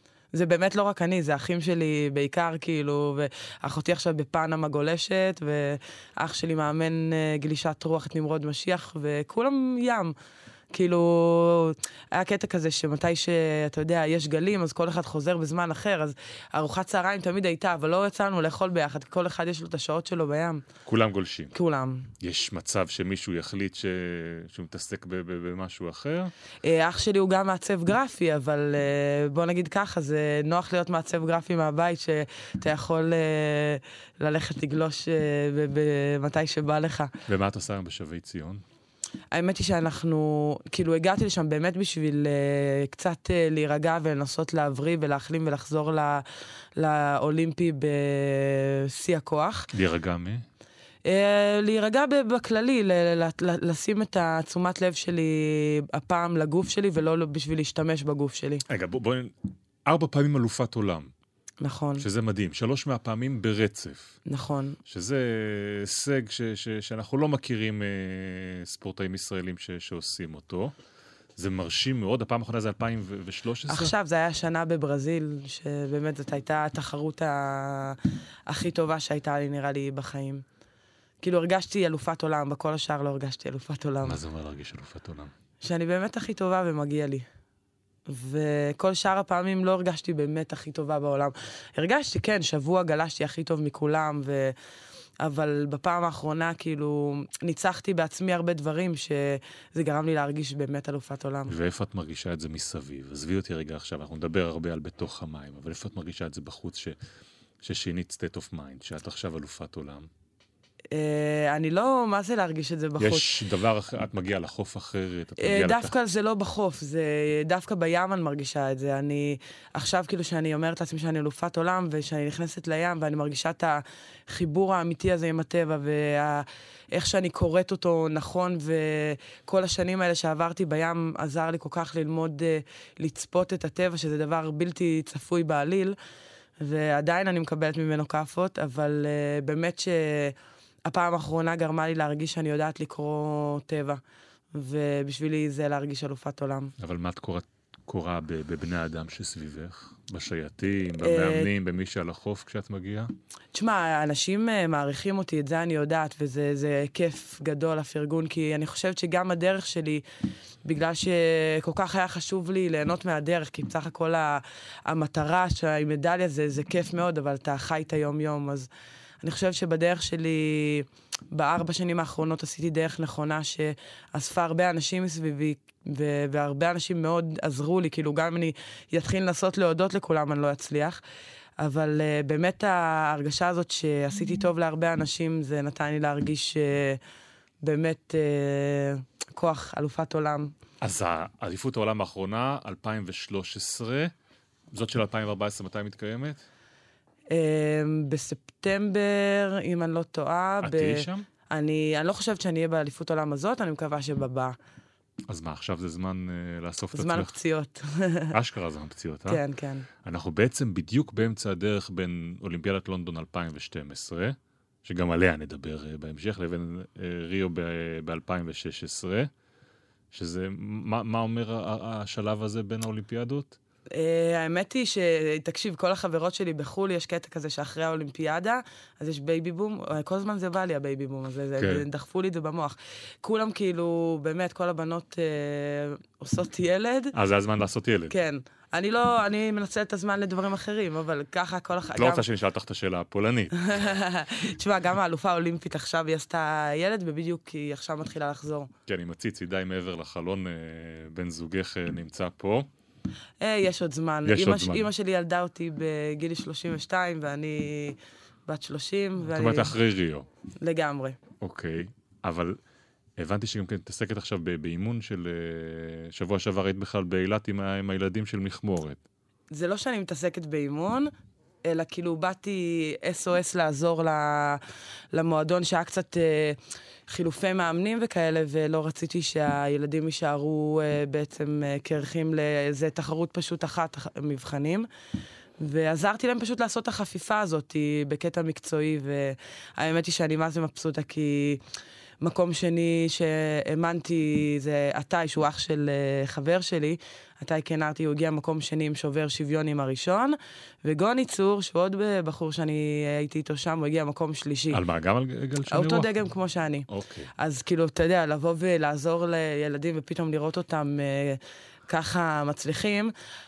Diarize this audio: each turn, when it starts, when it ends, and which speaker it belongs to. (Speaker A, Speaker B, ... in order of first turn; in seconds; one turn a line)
Speaker A: 0.3-10.2
Speaker A: 10.7-20.6
Speaker B: 20.9-21.5
Speaker A: 21.5-22.1
Speaker B: 22.2-26.3
Speaker A: 26.6-37.1
Speaker B: 37.3-38.6
Speaker A: 39.3-46.2
Speaker A: 46.8-49.7
Speaker B: 49.7-50.5
Speaker A: 51.0-58.6
Speaker B: 58.7-59.3
Speaker B: 59.9-61.1
Speaker A: 61.6-62.0
Speaker B: 62.0-64.2
Speaker A: 64.3-64.8
Speaker B: 64.9-70.7
Speaker B: 71.4-73.9
Speaker A: 73.7-80.4
Speaker A: 81.2-84.2
Speaker B: 84.0-85.3
Speaker A: 85.6-87.2
Speaker A: 88.1-94.5
Speaker A: 95.2-101.5
Speaker B: 101.5-107.0
Speaker B: 107.6-110.1
Speaker A: 110.9-113.3
Speaker B: 113.0-116.0
Speaker A: 115.4-136.0
Speaker A: 136.6-144.0
Speaker A: 144.5-146.7
Speaker B: 146.8-153.1
Speaker A: 151.0-151.5
Speaker A: 153.5-160.0
Speaker A: 160.6-168.7
Speaker A: 169.2-181.0
Speaker A: 181.6-187.0
Speaker A: 187.6-190.5
Speaker B: 190.8-194.1
Speaker B: 194.7-196.4
Speaker A: 197.3-204.6
Speaker B: 200.6-201.3
Speaker B: 205.3-207.3
Speaker A: 206.9-208.3
Speaker B: 208.3-209.4
Speaker A: 209.3-209.9
Speaker B: 210.0-219.3
Speaker B: 220.1-223.6
Speaker A: 223.9-237.1
Speaker B: 231.6-231.8
Speaker B: 237.1-238.1
Speaker A: 238.1-242.2
Speaker B: 241.9-244.0
Speaker A: 243.6-248.7
Speaker B: 248.9-252.7
Speaker A: 253.4-259.7
Speaker B: 254.2-254.9
Speaker B: 259.2-260.3
Speaker A: 260.6-261.2
Speaker B: 261.4-262.6
Speaker B: 263.2-269.0
Speaker A: 269.5-271.1
Speaker A: 271.6-274.6
Speaker A: 275.1-284.9
Speaker A: 285.6-291.6
Speaker A: 292.2-304.8
Speaker B: 304.7-306.1
Speaker A: 305.7-313.1
Speaker B: 306.9-307.3